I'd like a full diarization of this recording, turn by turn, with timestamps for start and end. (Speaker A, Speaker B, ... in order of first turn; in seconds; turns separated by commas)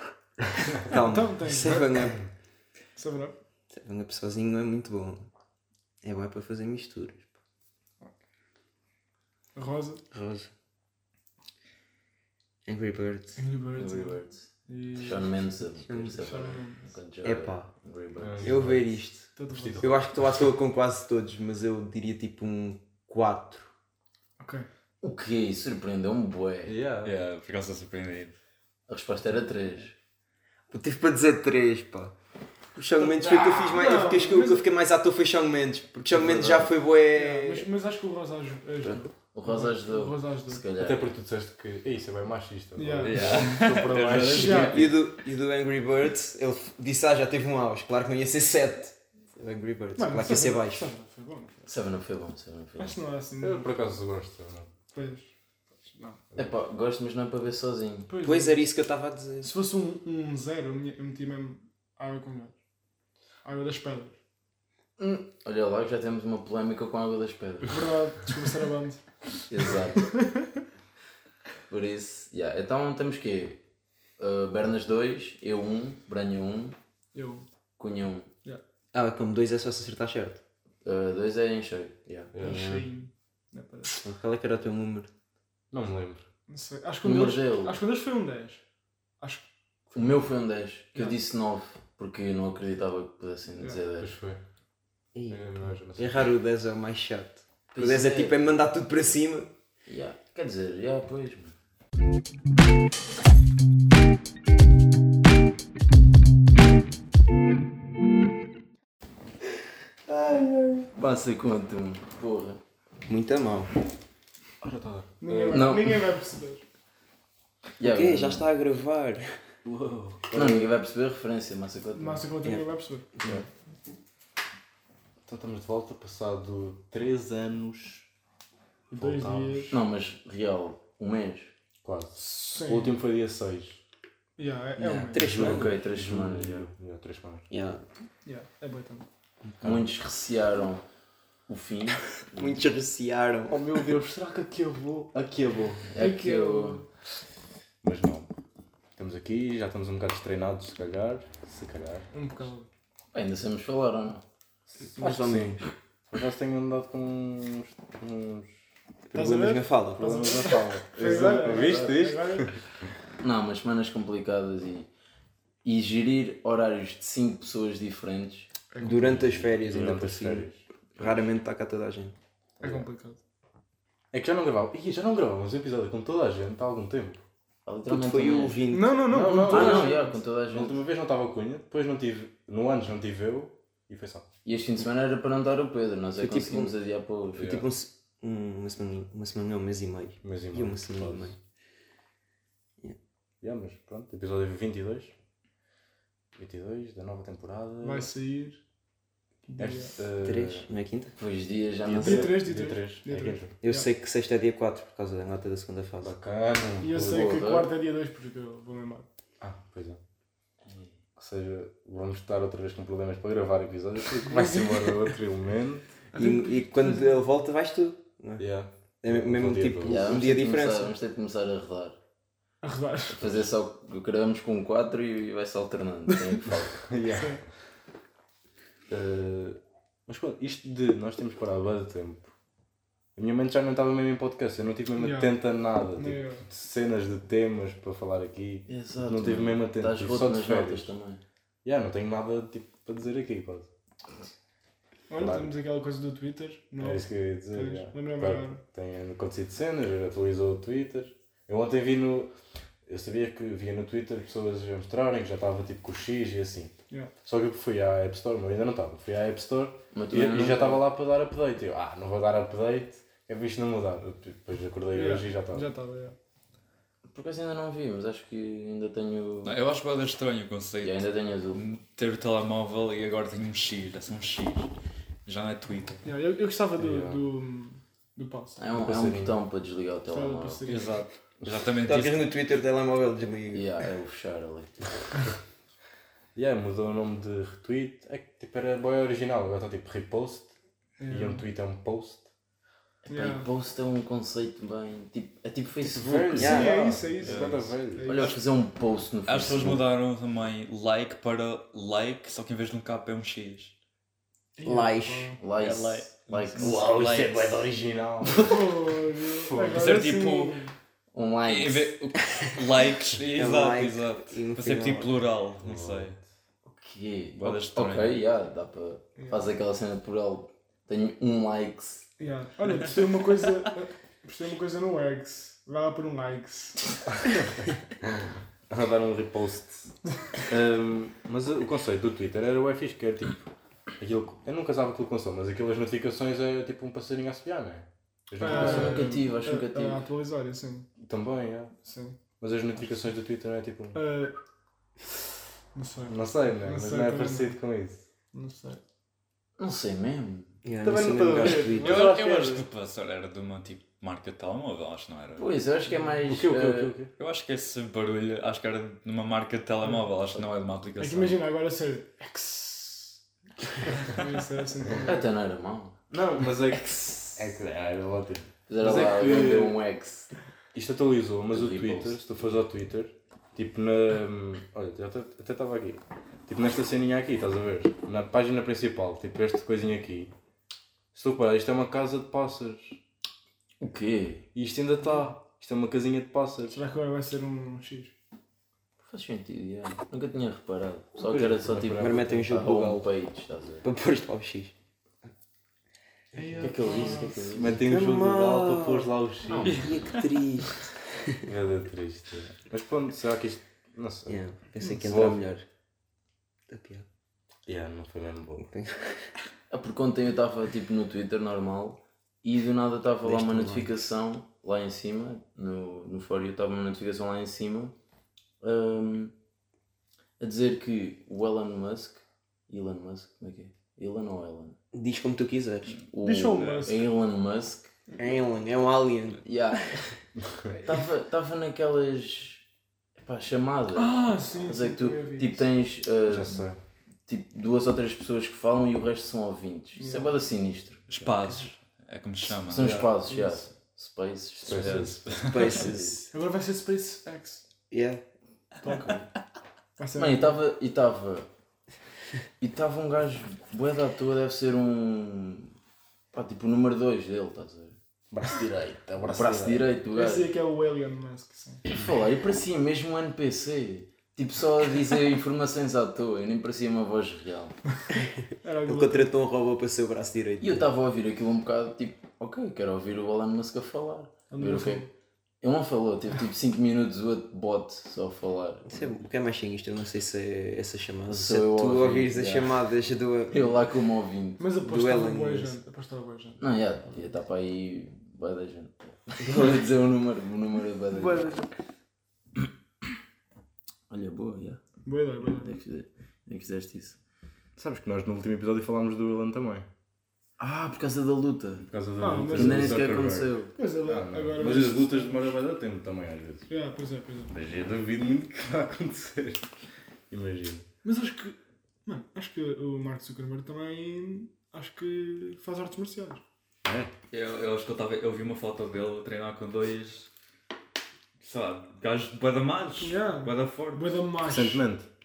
Speaker A: 0.8-2.2, Speaker B: 0.9-1.9, Speaker B: 3.0-3.4, Speaker A: 3.7-5.3, Speaker A: 6.0-7.3, Speaker B: 9.5-10.0, Speaker A: 10.1-10.5, Speaker A: 12.6-13.4, Speaker B: 13.3-15.4, Speaker C: 13.7-18.7, Speaker A: 15.8-16.2, Speaker B: 16.2-16.9, Speaker A: 17.2-17.7, Speaker D: 18.2-19.9, Speaker A: 18.4-23.7, Speaker B: 19.4-19.9, Speaker B: 24.4-24.6, Speaker C: 25.0-26.8, Speaker D: 26.6-27.2, Speaker E: 27.0-28.4, Speaker C: 28.9-29.9, Speaker A: 30.7-32.1, Speaker A: 32.7-37.7, Speaker D: 33.0-33.5, Speaker B: 33.6-34.7, Speaker C: 36.1-36.7, Speaker B: 37.1-40.6, Speaker C: 39.3-41.1, Speaker D: 40.8-44.9, Speaker B: 42.8-43.8, Speaker E: 43.0-44.9, Speaker B: 44.3-44.8, Speaker A: 44.4-50.9, Speaker B: 50.0-51.7, Speaker C: 51.7-53.0, Speaker B: 52.8-53.9, Speaker D: 53.4-54.7, Speaker B: 54.9-55.3, Speaker B: 55.8-56.2, Speaker C: 56.3-58.1, Speaker B: 58.1-58.6, Speaker A: 58.2-59.5, Speaker B: 59.4-62.5, Speaker B: 63.4-64.2, Speaker C: 65.0-67.9, Speaker B: 67.7-69.0, Speaker C: 69.5-70.1, Speaker B: 69.6-70.5, Speaker C: 71.7-73.6, Speaker C: 74.2-76.8, Speaker B: 77.1-77.4, Speaker C: 77.8-78.3, Speaker A: 78.9-80.4, Speaker C: 80.8-82.5, Speaker D: 82.3-82.8, Speaker B: 82.4-84.0, Speaker A: 84.0-85.1, Speaker D: 85.7-86.3, Speaker B: 86.5-88.6, Speaker C: 87.0-87.8, Speaker B: 89.2-89.5, Speaker C: 89.9-94.1, Speaker D: 94.0-94.4, Speaker A: 95.1-99.5, Speaker D: 95.3-96.2, Speaker C: 97.7-98.4, Speaker C: 99.9-101.5, Speaker A: 110.1-110.9, Speaker C: 111.0-112.6, Speaker A: 113.0-113.7, Speaker D: 114.6-115.7, Speaker B: 115.2-116.6, Speaker C: 115.5-116.1, Speaker C: 117.8-118.5, Speaker A: 117.8-119.5, Speaker D: 119.6-120.8, Speaker C: 120.3-122.3, Speaker B: 121.9-123.2, Speaker D: 125.2-128.1, Speaker B: 128.9-129.7, Speaker D: 128.9-129.8, Speaker C: 129.7-131.5, Speaker D: 131.8-133.8, Speaker B: 132.2-133.0, Speaker B: 134.4-135.6, Speaker A: 134.8-135.7, Speaker C: 135.1-136.7, Speaker D: 135.3-137.5, Speaker A: 137.5-137.8, Speaker B: 138.2-139.1, Speaker D: 139.6-139.9, Speaker C: 139.6-140.8, Speaker C: 141.5-142.6, Speaker A: 142.3-143.6, Speaker D: 143.5-145.9, Speaker C: 145.9-146.8, Speaker B: 145.9-146.9, Speaker D: 147.8-148.3, Speaker D: 148.9-152.1, Speaker B: 152.1-152.7, Speaker C: 153.1-154.2, Speaker A: 154.9-155.7, Speaker D: 155.0-158.6, Speaker A: 159.1-160.5, Speaker B: 159.1-162.6, Speaker D: 160.0-162.7, Speaker C: 161.0-162.0, Speaker C: 163.2-164.9, Speaker C: 165.6-168.5, Speaker B: 168.7-169.2, Speaker A: 168.8-172.2, Speaker D: 169.0-171.2, Speaker D: 172.6-172.8, Speaker B: 172.6-173.2, Speaker D: 174.1-177.2, Speaker C: 177.6-178.7, Speaker A: 177.9-179.9, Speaker B: 178.7-180.2, Speaker D: 179.1-184.3, Speaker C: 179.4-180.8, Speaker C: 184.4-187.6, Speaker A: 186.2-186.8, Speaker A: 187.3-191.4, Speaker D: 187.3-187.7, Speaker D: 190.2-191.3, Speaker D: 193.4-195.1, Speaker D: 196.3-198.1, Speaker B: 197.8-198.6, Speaker B: 199.5-200.0, Speaker D: 199.6-200.7, Speaker A: 200.2-201.2, Speaker C: 201.2-202.5, Speaker D: 201.8-203.5, Speaker B: 202.0-203.9, Speaker A: 203.6-206.1, Speaker D: 206.0-207.4, Speaker B: 206.8-209.1, Speaker C: 207.0-207.7, Speaker D: 209.4-210.0, Speaker C: 210.7-210.9, Speaker D: 211.2-215.9, Speaker B: 214.2-215.0, Speaker B: 216.1-217.2, Speaker A: 216.1-218.5, Speaker D: 218.4-220.2, Speaker A: 219.0-220.9, Speaker C: 219.8-222.0, Speaker B: 222.6-223.4, Speaker C: 223.1-226.7, Speaker D: 226.4-227.4, Speaker B: 227.1-227.4, Speaker D: 228.9-232.3, Speaker D: 233.1-240.9, Speaker B: 234.9-235.4, Speaker B: 235.9-236.4, Speaker C: 238.7-241.2, Speaker D: 241.6-243.7, Speaker B: 245.1-248.6, Speaker D: 245.2-245.5, Speaker D: 246.8-252.3, Speaker D: 252.8-265.6, Speaker C: 259.9-260.8, Speaker B: 264.9-266.1, Speaker C: 267.1-269.5, Speaker E: 269.4-274.7, Speaker C: 270.8-271.6, Speaker E: 275.2-276.0, Speaker B: 276.0-278.6, Speaker D: 276.8-277.2, Speaker C: 278.6-280.6, Speaker D: 278.8-279.4, Speaker B: 280.1-281.0, Speaker D: 280.6-281.6, Speaker E: 281.4-282.3, Speaker A: 281.8-283.8, Speaker C: 283.5-284.9, Speaker D: 286.3-290.5, Speaker B: 291.0-291.4, Speaker D: 291.1-292.3, Speaker C: 293.1-296.8, Speaker B: 293.1-293.5, Speaker D: 295.9-298.2, Speaker A: 296.4-296.8, Speaker B: 296.4-298.4, Speaker E: 297.2-297.6, Speaker C: 298.0-299.8, Speaker E: 299.2-303.7, Speaker B: 304.6-305.4, Speaker A: 304.6-305.4, Speaker C: 305.4-306.8, Speaker E: 305.6-307.6, Speaker D: 306.5-308.8, Speaker B: 308.4-310.7, Speaker D: 309.4-309.9, Speaker E: 309.7-310.6, Speaker C: 311.1-311.9, Speaker E: 311.4-316.1, Speaker A: 313.3-315.1, Speaker D: 315.6-316.2, Speaker C: 316.6-322.1, Speaker E: 317.4-318.2, Speaker B: 319.2-319.5, Speaker B: 322.2-327.4, Speaker D: 328.0-339.2, Speaker B: 338.4-340.9, Speaker C: 338.4-340.0, Speaker D: 341.0-341.7, Speaker B: 341.8-342.2, Speaker D: 342.4-344.0, Speaker B: 343.9-344.3, Speaker B: 345.7-347.6, Speaker D: 346.1-348.0, Speaker B: 348.3-348.8, Speaker C: 349.6-350.6, Speaker A: 350.6-352.0, Speaker D: 350.8-352.6, Speaker B: 351.4-351.7, Speaker E: 351.7-355.5, Speaker C: 355.4-356.9, Speaker B: 355.9-356.2, Speaker D: 356.2-357.1, Speaker E: 357.1-361.4, Speaker B: 361.0-363.2, Speaker B: 363.8-365.3, Speaker C: 365.0-366.0, Speaker D: 366.1-369.8, Speaker C: 368.7-370.3, Speaker D: 370.7-380.3, Speaker C: 371.5-372.2, Speaker D: 381.1-383.0, Speaker C: 383.8-384.4, Speaker D: 384.5-386.8, Speaker B: 386.7-388.1, Speaker C: 389.0-393.9, Speaker D: 391.2-392.4, Speaker A: 392.0-393.1, Speaker A: 393.8-394.7, Speaker B: 396.3-397.6, Speaker C: 396.6-397.8, Speaker D: 396.6-399.8, Speaker A: 397.8-400.9, Speaker B: 399.5-399.8, Speaker D: 401.4-405.4, Speaker A: 404.3-405.6, Speaker A: 406.7-407.1, Speaker D: 407.6-408.7, Speaker A: 408.6-409.3, Speaker C: 409.7-417.9, Speaker A: 413.2-414.1, Speaker C: 418.6-419.3, Speaker C: 420.4-424.8, Speaker A: 424.9-426.0, Speaker C: 426.1-427.9, Speaker B: 426.2-427.1, Speaker A: 428.2-430.0, Speaker C: 429.4-430.2, Speaker C: 430.7-432.6, Speaker C: 433.2-436.6, Speaker B: 433.9-435.6, Speaker D: 436.2-436.8, Speaker C: 437.3-441.6, Speaker B: 439.9-440.3, Speaker E: 441.1-443.1, Speaker C: 442.6-446.3, Speaker D: 442.7-443.1, Speaker B: 443.3-443.6, Speaker D: 444.6-445.5, Speaker E: 444.7-445.8, Speaker A: 445.4-446.2, Speaker B: 446.3-447.7, Speaker A: 447.9-448.2, Speaker C: 448.8-449.3, Speaker B: 450.0-450.6, Speaker C: 450.1-451.5, Speaker C: 452.6-455.7, Speaker C: 456.3-458.0, Speaker D: 458.3-459.9, Speaker C: 459.2-460.5, Speaker B: 460.1-461.8, Speaker C: 461.9-467.8, Speaker A: 468.1-470.9, Speaker B: 468.6-469.3, Speaker C: 470.6-475.0, Speaker B: 474.5-475.1, Speaker C: 475.6-479.1, Speaker A: 478.9-483.8, Speaker C: 481.3-482.9, Speaker C: 483.5-484.6, Speaker B: 484.6-486.6, Speaker A: 484.8-485.8, Speaker C: 486.6-491.6, Speaker A: 491.2-491.7, Speaker C: 494.1-494.8, Speaker B: 495.0-495.8, Speaker C: 495.4-497.2, Speaker D: 497.8-499.9, Speaker C: 500.6-501.9, Speaker D: 501.8-506.7, Speaker B: 502.2-503.2, Speaker C: 502.4-503.7, Speaker B: 503.7-505.6, Speaker B: 506.7-507.6, Speaker D: 507.5-509.7, Speaker D: 510.3-510.9, Speaker B: 511.0-516.4, Speaker D: 516.8-517.1, Speaker E: 517.3-520.3, Speaker E: 521.4-524.2, Speaker B: 523.0-524.8, Speaker D: 524.4-525.1